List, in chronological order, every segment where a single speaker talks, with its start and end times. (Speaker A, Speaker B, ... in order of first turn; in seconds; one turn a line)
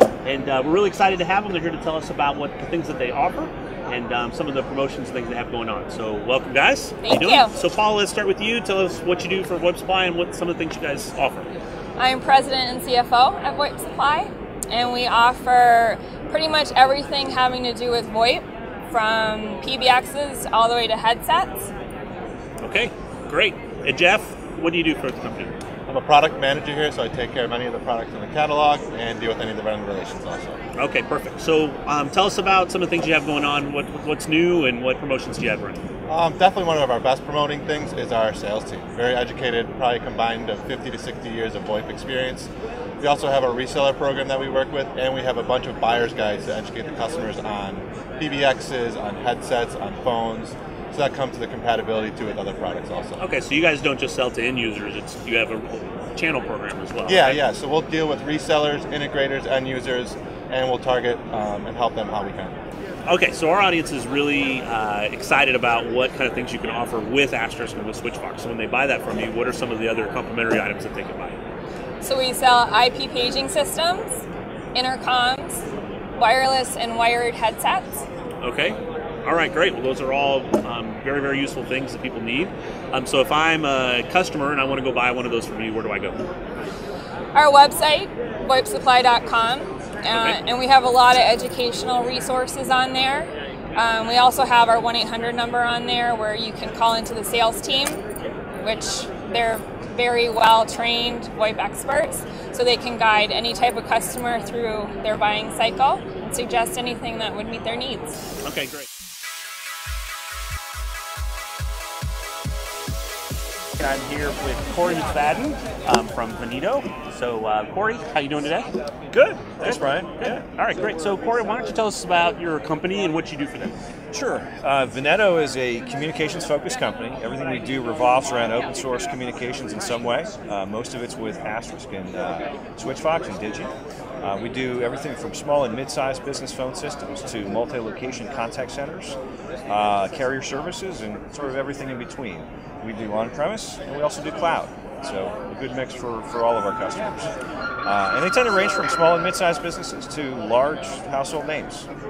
Speaker A: 0.2-11.5
Speaker B: 7.0-7.5
Speaker B: 12.0-21.7
Speaker A: 22.6-25.5
Speaker C: 25.9-30.6
Speaker A: 30.8-35.8
Speaker C: 36.1-42.5
Speaker C: 43.0-53.2
Speaker A: 53.2-57.4
Speaker C: 57.0-62.5
Speaker A: 63.1-71.4
Speaker B: 72.0-74.2
Speaker B: 74.7-75.6
Speaker B: 76.2-78.0
Speaker A: 78.4-86.2
Speaker B: 87.3-98.0
Speaker A: 90.1-90.4
Speaker B: 98.6-108.1
Speaker A: 108.4-108.9
Speaker A: 113.8-123.7
Speaker D: 119.6-120.4
Speaker D: 124.1-139.2
Speaker D: 139.7-147.3
Speaker D: 147.8-151.9